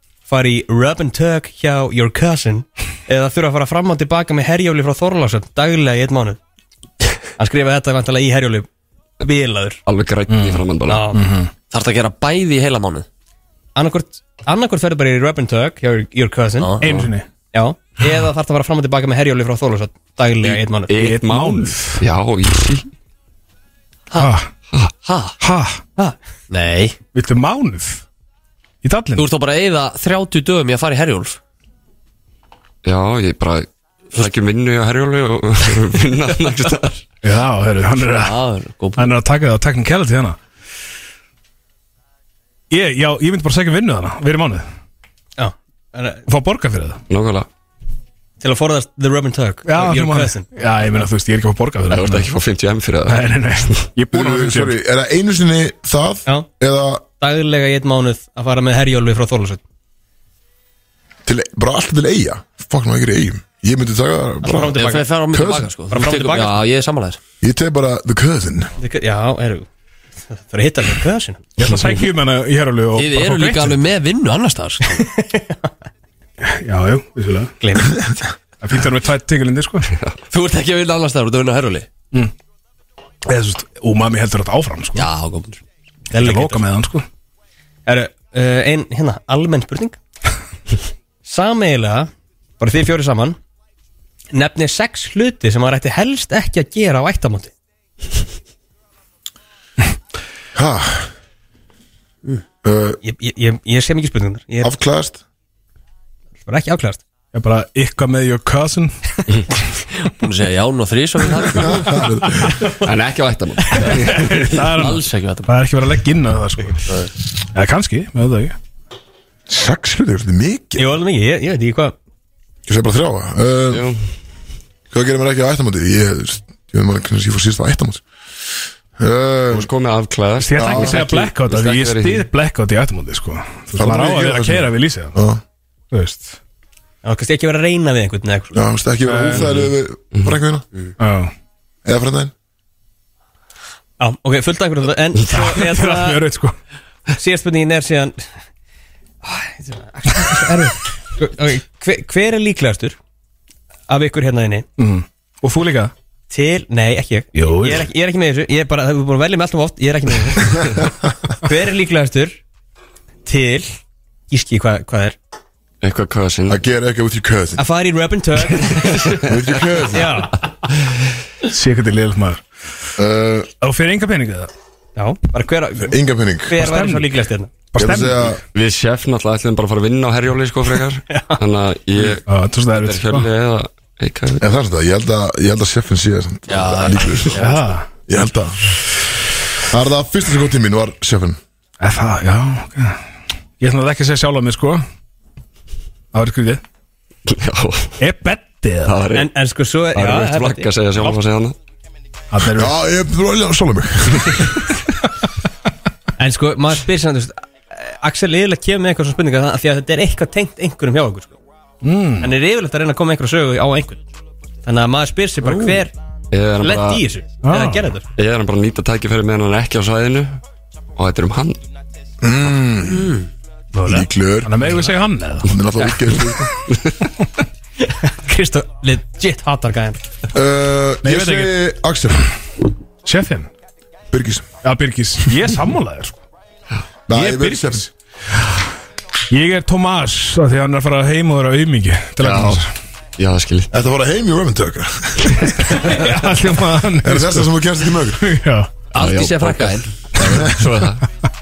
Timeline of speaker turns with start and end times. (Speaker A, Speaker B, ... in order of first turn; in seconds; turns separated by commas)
Speaker A: 0.3-6.4, Speaker A: 7.4-8.7, Speaker A: 9.2-9.8, Speaker B: 9.8-11.1, Speaker C: 10.3-11.5, Speaker A: 10.9-11.2, Speaker D: 11.7-13.1, Speaker A: 13.8-16.7, Speaker D: 16.6-17.1, Speaker C: 16.8-17.3, Speaker A: 17.5-20.9, Speaker B: 20.4-22.9, Speaker C: 20.9-22.0, Speaker C: 24.1-24.5, Speaker D: 25.0-25.4, Speaker C: 25.4-25.8, Speaker D: 26.5-27.0, Speaker C: 27.1-28.0, Speaker C: 28.8-29.3, Speaker D: 29.1-31.4, Speaker B: 32.8-37.0, Speaker C: 37.2-38.4, Speaker D: 38.1-39.1, Speaker C: 38.9-40.4, Speaker C: 42.7-44.6, Speaker A: 45.4-46.2, Speaker C: 46.3-47.0, Speaker B: 47.1-47.5, Speaker A: 48.4-50.5, Speaker C: 49.6-52.3, Speaker B: 51.9-53.8, Speaker C: 53.0-54.8, Speaker E: 54.1-57.0, Speaker A: 57.2-59.6, Speaker E: 61.2-65.7, Speaker A: 64.4-65.1, Speaker D: 64.7-67.2, Speaker A: 65.9-66.6, Speaker E: 67.4-68.7, Speaker A: 68.8-69.7, Speaker A: 70.3-71.4, Speaker C: 71.6-73.8, Speaker D: 72.9-75.0, Speaker A: 74.9-75.7, Speaker C: 76.4-77.5, Speaker A: 77.6-78.1, Speaker C: 78.6-79.9, Speaker D: 80.3-81.9, Speaker C: 83.2-85.1, Speaker D: 84.9-85.6, Speaker A: 86.1-86.6, Speaker C: 86.1-87.0, Speaker A: 87.8-90.0, Speaker A: 91.2-93.4, Speaker A: 94.3-97.5, Speaker E: 100.5-101.1, Speaker E: 102.6-103.0, Speaker A: 103.0-104.7, Speaker E: 104.6-105.2, Speaker A: 106.4-107.0, Speaker C: 107.3-109.0, Speaker D: 110.0-112.0, Speaker E: 111.5-112.5, Speaker B: 112.8-114.5, Speaker C: 114.0-116.9, Speaker D: 114.2-115.5, Speaker C: 117.5-118.5, Speaker E: 119.5-120.9, Speaker A: 120.8-121.9, Speaker E: 122.7-123.9, Speaker B: 123.7-124.0, Speaker E: 124.9-128.0, Speaker E: 129.0-129.7, Speaker B: 129.5-132.2, Speaker C: 130.4-135.1, Speaker E: 130.6-131.0, Speaker E: 133.8-135.4, Speaker C: 135.9-136.3, Speaker A: 137.0-138.5, Speaker E: 138.5-140.7, Speaker C: 139.1-139.5, Speaker C: 141.0-141.3, Speaker E: 141.8-142.3, Speaker A: 144.0-146.2, Speaker C: 145.3-146.6, Speaker A: 147.1-148.3, Speaker A: 149.2-153.0, Speaker A: 153.9-154.7, Speaker C: 154.8-155.9, Speaker A: 156.3-160.8, Speaker C: 157.3-157.9, Speaker A: 161.3-162.4, Speaker A: 163.2-163.8, Speaker A: 164.3-165.2, Speaker B: 165.8-166.6, Speaker E: 166.5-167.6, Speaker A: 167.6-169.3, Speaker E: 169.2-170.2, Speaker A: 169.9-170.3, Speaker C: 171.4-172.4, Speaker E: 173.0-173.5, Speaker C: 173.6-174.5, Speaker A: 175.0-175.9, Speaker E: 175.8-176.6, Speaker A: 176.5-177.5, Speaker C: 176.5-177.2, Speaker C: 177.7-178.4, Speaker E: 177.8-178.4, Speaker B: 178.5-184.5, Speaker A: 181.1-181.4, Speaker C: 182.2-183.3, Speaker E: 184.4-187.4, Speaker D: 186.5-187.6, Speaker C: 187.3-187.9, Speaker E: 188.1-188.6, Speaker E: 189.7-191.4, Speaker C: 191.8-193.0, Speaker C: 193.6-194.8, Speaker C: 196.1-196.6, Speaker B: 197.3-197.9, Speaker C: 198.0-199.0, Speaker B: 198.8-199.3, Speaker A: 199.1-200.7, Speaker B: 199.9-201.6, Speaker C: 202.3-202.7, Speaker E: 202.5-204.5, Speaker A: 206.2-211.4, Speaker C: 211.8-212.3, Speaker A: 212.2-214.0, Speaker A: 214.6-215.9, Speaker C: 215.4-215.8, Speaker B: 216.3-217.0, Speaker A: 216.6-218.0, Speaker C: 217.4-217.8, Speaker B: 218.1-220.4, Speaker B: 220.9-221.6, Speaker E: 222.2-223.1, Speaker D: 222.9-223.3, Speaker C: 223.8-225.6, Speaker E: 223.8-224.6, Speaker E: 225.4-226.5, Speaker B: 226.7-226.9, Speaker A: 227.9-230.0, Speaker E: 230.3-232.3, Speaker C: 231.0-231.5, Speaker C: 233.0-233.5, Speaker E: 234.1-234.5, Speaker C: 234.6-236.2, Speaker E: 237.1-237.9, Speaker C: 237.1-237.9, Speaker C: 239.3-242.7, Speaker B: 242.2-242.6, Speaker B: 243.2-243.7, Speaker E: 243.7-245.7, Speaker A: 245.7-246.2, Speaker C: 245.9-247.5, Speaker E: 247.0-248.3, Speaker C: 248.2-248.7, Speaker D: 248.9-249.9, Speaker B: 248.9-251.0, Speaker E: 250.2-250.7